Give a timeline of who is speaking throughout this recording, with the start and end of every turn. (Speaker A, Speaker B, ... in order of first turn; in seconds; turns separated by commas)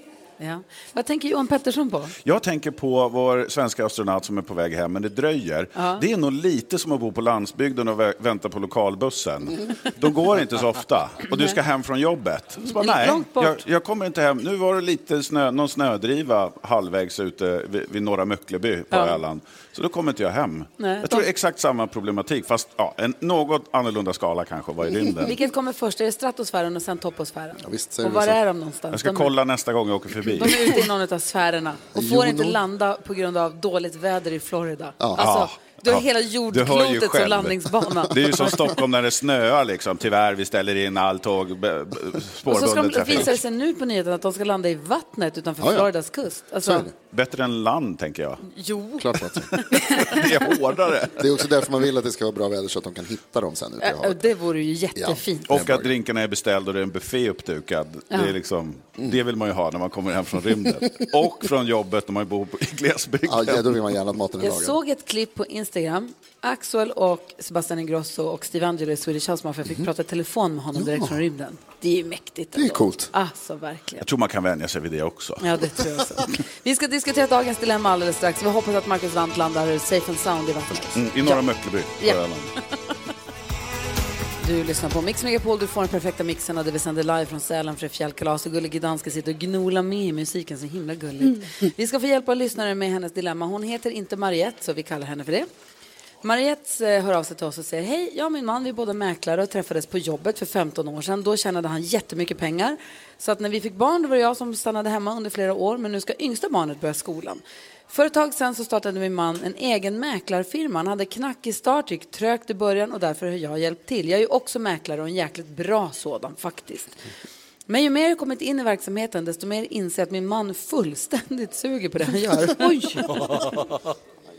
Speaker A: 0.4-2.1, Speaker B: 2.2-25.3, Speaker A: 5.8-6.0, Speaker A: 12.8-13.6, Speaker A: 18.9-19.2, Speaker A: 20.8-21.2, Speaker A: 25.2-29.3, Speaker C: 27.6-28.4, Speaker B: 28.9-30.8, Speaker A: 30.4-38.6, Speaker C: 31.9-32.6, Speaker C: 35.0-35.3, Speaker B: 35.2-43.4, Speaker A: 42.5-46.9, Speaker C: 45.6-45.9, Speaker C: 46.6-46.9, Speaker B: 47.0-48.4, Speaker A: 48.5-50.2, Speaker C: 49.0-49.5, Speaker B: 49.9-51.2, Speaker C: 51.1-54.2, Speaker A: 53.8-55.5, Speaker C: 55.0-55.9, Speaker B: 55.5-63.8, Speaker C: 63.2-64.8, Speaker A: 64.4-74.0, Speaker C: 70.7-71.2, Speaker C: 72.5-73.1, Speaker B: 74.0-75.4, Speaker A: 75.4-81.4, Speaker B: 80.9-82.5, Speaker A: 84.4-95.5, Speaker A: 96.2-117.0, Speaker A: 117.7-123.4